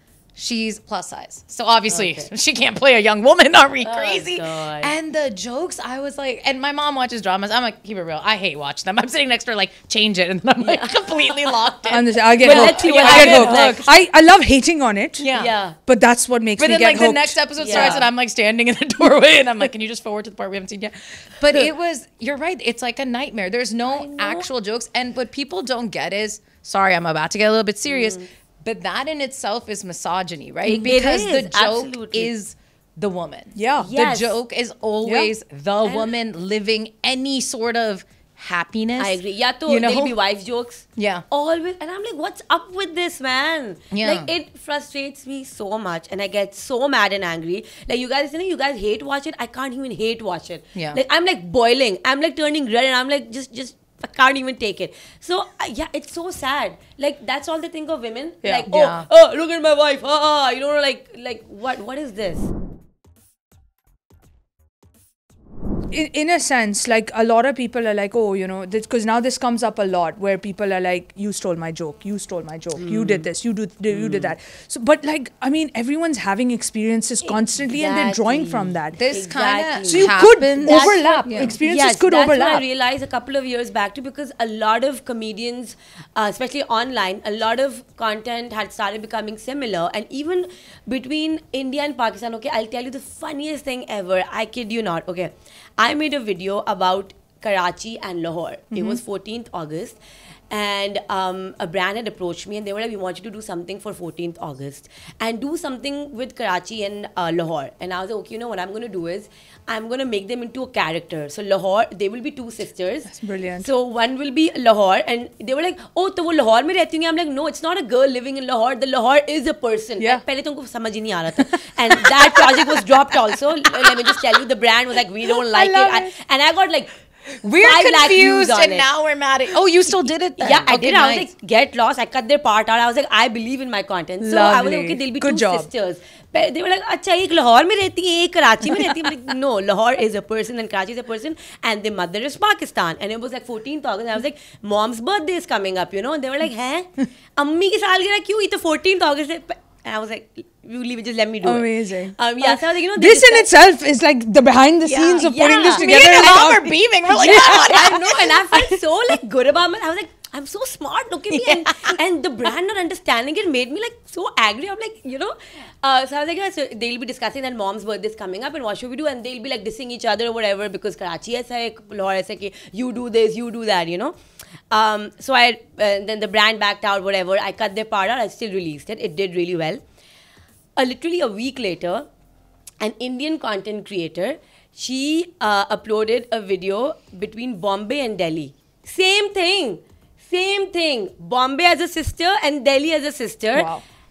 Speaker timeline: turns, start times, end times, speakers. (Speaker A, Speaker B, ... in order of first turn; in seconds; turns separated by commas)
Speaker A: 0.4-13.9, Speaker B: 1.9-2.3, Speaker B: 3.8-4.9, Speaker B: 10.6-11.5, Speaker C: 11.9-15.3, Speaker B: 12.4-13.9, Speaker A: 15.2-15.5, Speaker B: 15.3-15.8, Speaker C: 15.9-18.1, Speaker A: 16.6-40.1, Speaker B: 17.6-18.1, Speaker B: 23.9-24.5, Speaker B: 27.9-28.3, Speaker B: 30.6-32.3, Speaker C: 33.5-33.9, Speaker B: 33.8-34.4, Speaker C: 35.0-35.3, Speaker B: 39.0-62.5, Speaker A: 41.0-41.2, Speaker A: 43.9-44.3, Speaker A: 50.8-51.0, Speaker A: 58.7-59.1, Speaker C: 65.9-79.0, Speaker B: 72.8-73.3, Speaker B: 73.9-74.3, Speaker B: 77.2-100.0, Speaker A: 79.0-81.6, Speaker C: 79.9-82.6, Speaker C: 98.7-99.0, Speaker B: 100.5-126.9, Speaker C: 113.1-113.7, Speaker C: 125.3-126.1, Speaker A: 127.4-131.3, Speaker B: 127.6-128.9, Speaker B: 130.4-153.5, Speaker C: 134.2-135.7, Speaker C: 151.4-157.9, Speaker B: 154.9-156.4, Speaker A: 155.7-158.3, Speaker B: 157.2-174.1, Speaker A: 161.3-162.0, Speaker B: 174.7-179.8, Speaker B: 180.8-182.1, Speaker B: 182.8-193.7, Speaker C: 193.6-193.8